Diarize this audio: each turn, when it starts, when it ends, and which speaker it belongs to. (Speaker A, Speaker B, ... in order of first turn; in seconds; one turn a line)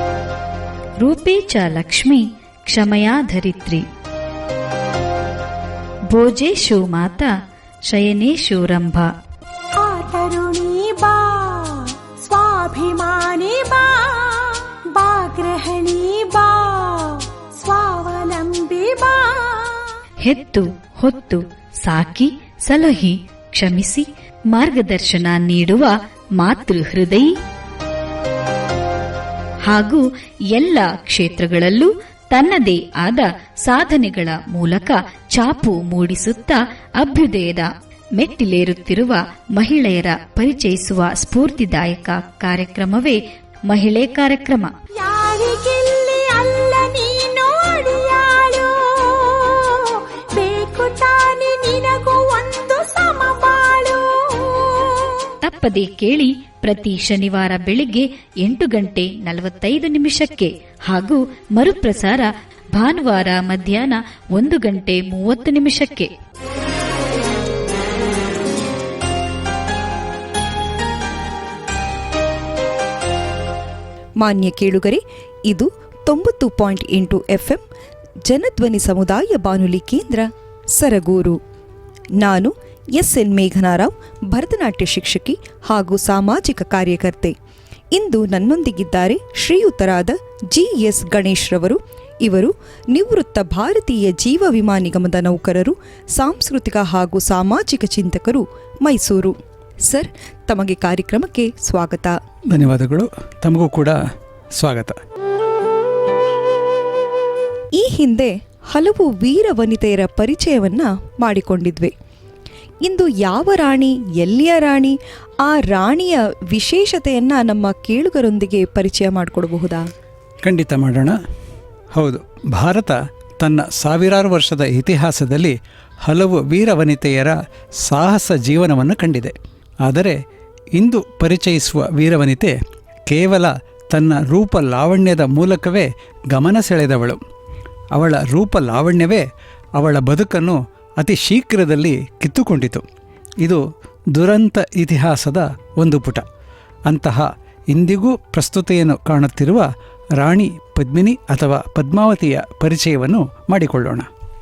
Speaker A: 1.0-3.9
Speaker A: 6.1-7.3
Speaker A: 7.8-9.1
Speaker B: 9.8-19.9
Speaker A: 20.2-27.3
Speaker A: 29.6-44.8
Speaker B: 45.0-55.3
Speaker A: 55.4-66.1
Speaker C: 74.2-77.6
Speaker C: 78.3-81.4
Speaker C: 82.2-87.3
Speaker C: 87.9-99.3
Speaker C: 99.9-102.2
Speaker D: 102.5-104.0
Speaker D: 104.5-105.0
Speaker C: 107.8-111.9
Speaker C: 112.8-119.9
Speaker D: 120.4-121.2
Speaker D: 121.9-130.2
Speaker D: 130.7-137.2
Speaker D: 137.9-139.2
Speaker D: 139.8-142.8
Speaker D: 144.1-146.2
Speaker D: 146.9-154.1